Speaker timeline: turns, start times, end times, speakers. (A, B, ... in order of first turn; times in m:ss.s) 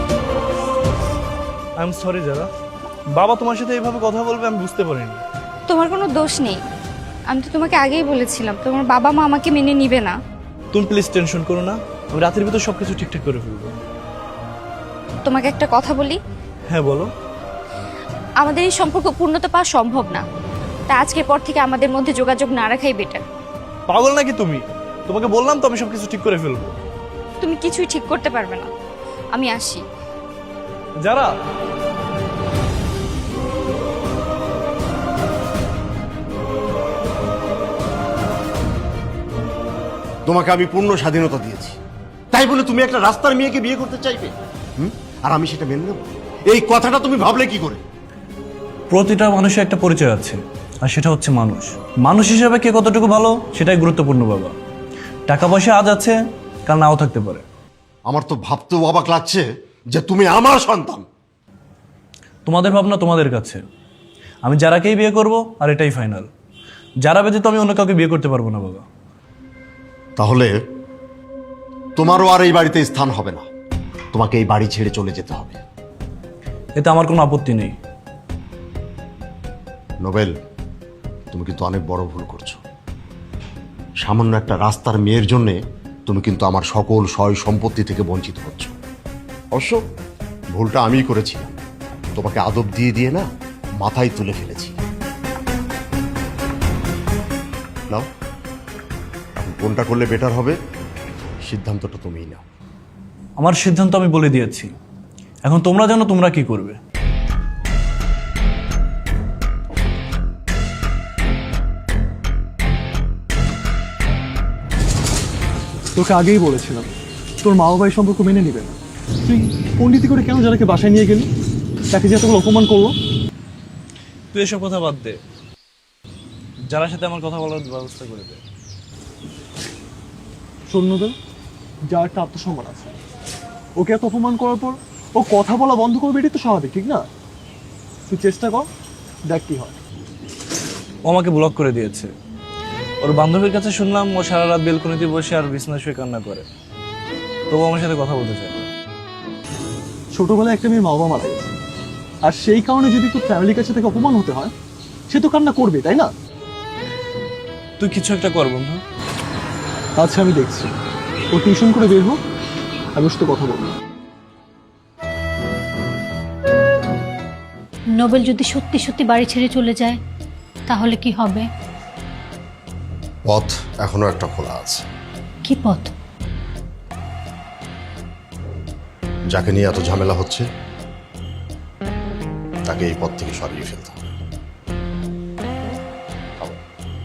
0:01.8-0:02.5 A
0:03.1-0:05.2 A
0:05.7-0:06.6 B
0:07.3-0:10.2 B
0:10.7-0:13.7 A
0:15.2-0:16.2 B
0:16.7-0:17.1 A
0:18.4-0:20.2 B
0:20.9-0:23.2 B
0:23.9-0:26.8 A
0:27.4-0:28.7 B
0:29.3-0:29.8 B
0:31.0-0:31.3 A
0:40.2-0:41.8 C
0:42.3-0:47.8 C
0:48.9-0:54.5 A
0:55.3-0:57.4 A
0:58.1-1:01.0 C
1:02.4-1:03.6 A
1:04.4-1:06.3 A
1:07.0-1:08.8 A
1:10.2-1:10.5 C
1:12.0-1:13.4 C
1:14.1-1:15.6 C
1:16.8-1:17.8 A
1:20.0-1:20.3 C
1:21.3-1:22.6 C
1:24.0-1:28.7 C
1:29.5-1:29.8 C
1:30.5-1:31.5 C
1:32.1-1:33.2 C
1:33.8-1:34.8 C
1:39.4-1:40.6 C
1:41.4-1:42.4 C
1:43.4-1:44.7 A
1:45.4-1:46.8 A
1:56.0-1:56.9 D
1:57.4-2:01.3 D
2:01.9-2:03.0 D
2:04.3-2:05.2 A
2:06.7-2:08.4 A
2:10.7-2:11.1 D
2:11.9-2:12.9 D
2:13.8-2:17.1 D
2:18.1-2:18.7 D
2:19.3-2:19.8 D
2:21.1-2:22.1 A
2:23.0-2:26.4 A
2:27.5-2:28.6 A
2:30.1-2:31.5 D
2:32.2-2:34.5 D
2:35.1-2:36.1 D
2:37.8-2:38.8 A
2:40.0-2:40.7 D
2:41.3-2:42.2 D
2:42.9-2:43.8 D
2:47.9-2:50.0 E
2:50.7-2:51.4 E
2:53.3-2:54.8 C
2:55.4-2:55.9 E
2:59.3-3:00.4 C
3:02.7-3:04.1 C